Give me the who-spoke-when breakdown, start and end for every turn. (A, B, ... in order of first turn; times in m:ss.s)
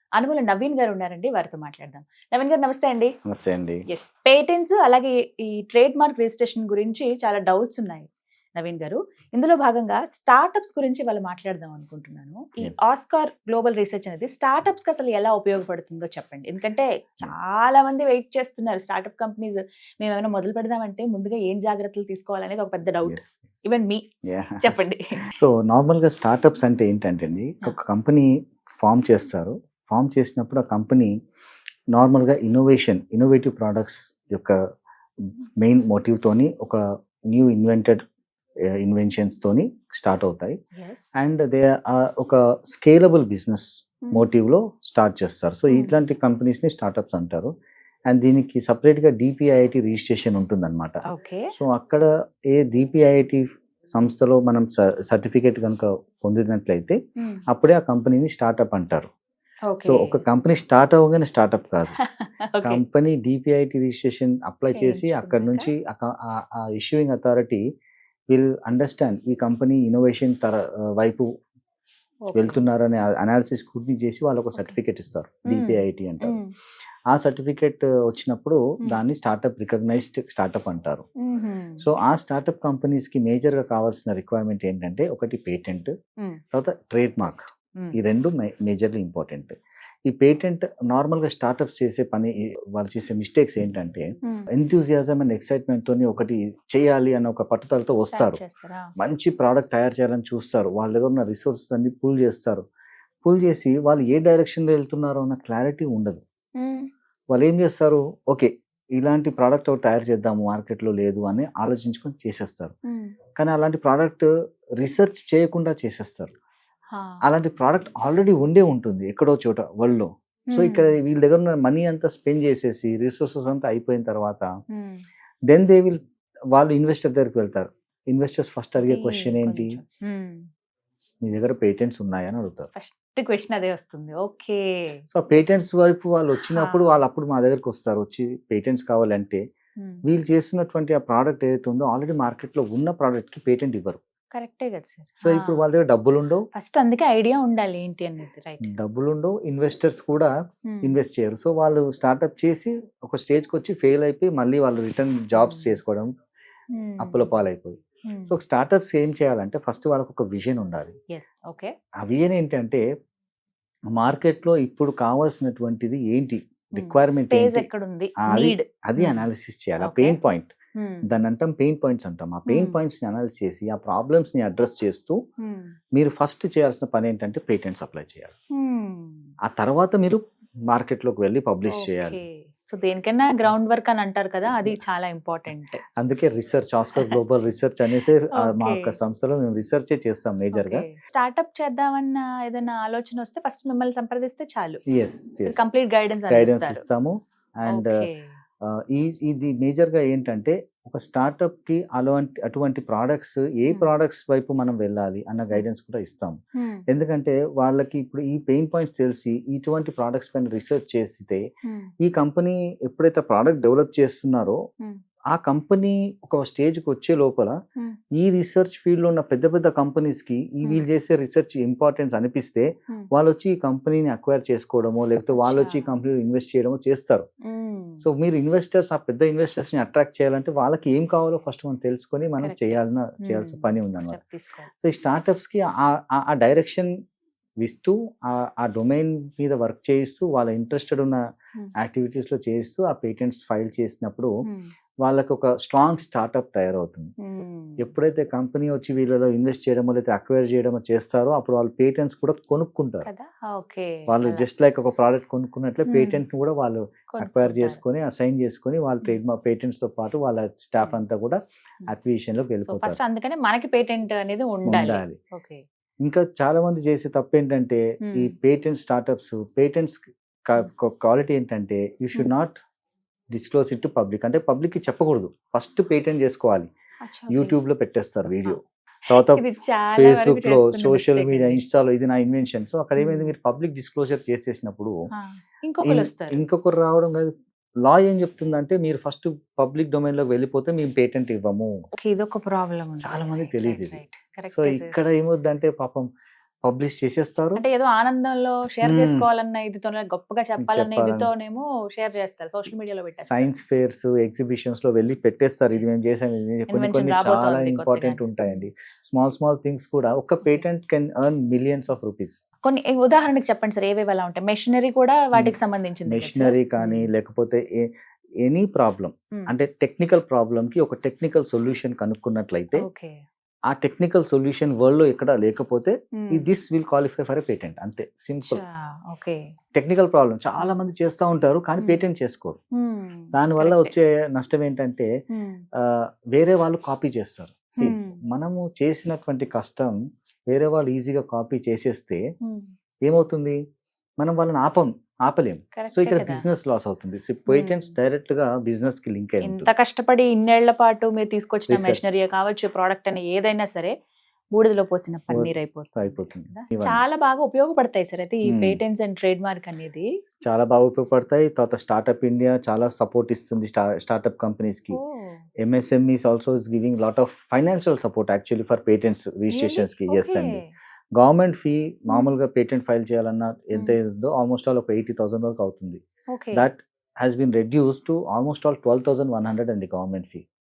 0:00.2-0:03.1 A
0:03.3-0:03.8 B
0:03.9-0:24.0 A
0:23.0-0:23.4 B
0:24.3-0:24.8 B
0:24.6-0:25.3 A
0:25.3-0:28.3 B
0:28.8-0:31.1 B
0:31.9-0:34.6 B
0:35.2-0:38.0 B
0:38.8-0:40.6 B
0:40.8-0:41.1 A
0:41.2-0:47.5 B
0:48.1-0:51.0 B
0:51.1-0:51.5 A
0:51.5-0:57.0 B
0:57.5-0:59.1 B
0:59.7-1:00.2 A
0:59.8-1:02.0 B
1:02.0-1:02.8 A
1:02.6-1:07.6 B
1:04.7-1:05.7 A
1:08.3-1:11.3 B
1:12.2-1:12.6 A
1:12.3-1:16.4 B
1:15.5-1:16.5 A
1:17.1-1:21.0 B
1:21.2-1:21.8 A
1:21.8-1:25.9 B
1:26.5-1:38.4 B
1:27.2-1:28.0 A
1:34.2-1:34.5 A
1:38.1-1:38.9 A
1:39.0-1:42.6 B
1:43.2-1:46.2 B
1:46.6-1:46.9 A
1:47.3-1:52.7 B
1:52.9-1:53.1 A
1:53.4-1:54.3 B
1:54.8-1:56.3 B
1:56.9-1:57.2 A
1:57.2-2:04.5 B
2:00.5-2:00.9 A
2:04.7-2:05.0 A
2:05.5-2:06.0 B
2:06.5-2:09.8 B
2:08.8-2:10.5 A
2:11.2-2:12.7 B
2:12.7-2:15.0 A
2:15.1-2:19.4 B
2:16.5-2:17.0 A
2:20.0-2:24.0 B
2:24.3-2:25.6 A
2:25.2-2:26.4 B
2:26.5-2:28.7 A
2:28.6-2:30.3 B
2:30.7-2:31.0 A
2:30.8-2:36.1 B
2:35.3-2:35.8 A
2:36.7-2:37.3 A
2:37.0-2:40.9 B
2:41.1-2:41.7 A
2:42.0-2:42.8 B
2:43.9-2:47.7 B
2:46.8-2:49.2 A
2:48.2-2:50.5 B
2:49.8-2:50.2 A
2:50.8-2:51.1 A
2:51.1-2:55.2 B
2:52.5-2:52.8 A
2:55.4-2:55.7 A
2:55.9-2:58.3 B
2:58.5-2:59.3 A
2:59.5-3:02.2 B
3:01.7-3:05.8 A
3:04.5-3:04.8 B
3:06.0-3:10.8 B
3:08.4-3:08.9 A
3:10.5-3:14.8 A
3:14.9-3:15.6 B
3:15.5-3:16.8 A
3:16.3-3:18.0 B
3:17.7-3:18.3 A
3:18.6-3:26.4 B
3:26.6-3:26.8 A
3:26.9-3:31.4 B
3:32.0-3:34.6 B
3:35.3-3:37.6 B
3:38.1-3:47.3 B
3:45.3-3:45.9 A
3:47.4-3:48.0 A
3:48.0-3:54.2 B
3:52.4-3:54.7 A
3:54.7-3:56.9 B
3:57.6-4:01.2 B
4:01.8-4:04.3 B
4:04.4-4:04.7 A
4:05.0-4:07.1 B
4:07.2-4:07.9 A
4:07.8-4:13.1 B
4:13.0-4:14.5 A
4:14.1-4:23.0 B
4:15.9-4:16.2 A
4:17.1-4:17.8 A
4:22.6-4:25.6 A
4:24.7-4:25.2 B
4:26.0-4:32.5 B
4:28.0-4:28.3 A
4:33.3-4:36.7 B
4:37.0-4:37.6 A
4:37.3-4:39.4 B
4:39.1-4:41.6 A
4:39.9-4:44.9 B
4:43.0-4:43.3 A
4:45.1-4:46.4 A
4:45.8-4:47.3 B
4:47.8-4:51.7 B
4:52.0-4:54.9 A
4:53.0-4:56.1 B
4:56.6-4:57.6 B
4:57.6-5:03.5 A
4:58.8-4:59.2 B
5:00.6-5:01.3 B
5:03.2-5:12.4 B
5:06.7-5:08.6 A
5:12.6-5:17.1 A
5:15.3-5:17.9 B
5:18.4-5:22.8 B
5:22.8-5:23.2 A
5:23.7-5:28.6 B
5:26.2-5:26.5 A
5:28.4-5:29.4 A
5:29.8-5:32.6 B
5:31.8-5:32.0 A
5:32.7-5:33.9 A
5:33.3-5:35.1 B
5:35.3-5:35.6 A
5:35.8-5:40.0 B
5:37.8-5:38.2 A
5:40.5-5:42.2 B
5:42.4-5:42.7 A
5:43.0-5:43.6 B
5:44.2-5:49.7 B
5:45.7-5:46.4 A
5:47.5-5:47.9 A
5:49.4-5:53.9 A
5:51.7-5:52.1 B
5:54.5-6:00.1 A
5:55.3-5:57.0 B
5:58.5-5:58.8 B
6:00.5-6:05.0 B
6:04.9-6:05.4 A
6:05.6-6:10.6 B
6:09.5-6:10.7 A
6:11.2-6:16.0 B
6:16.3-6:16.7 A
6:16.5-6:20.4 B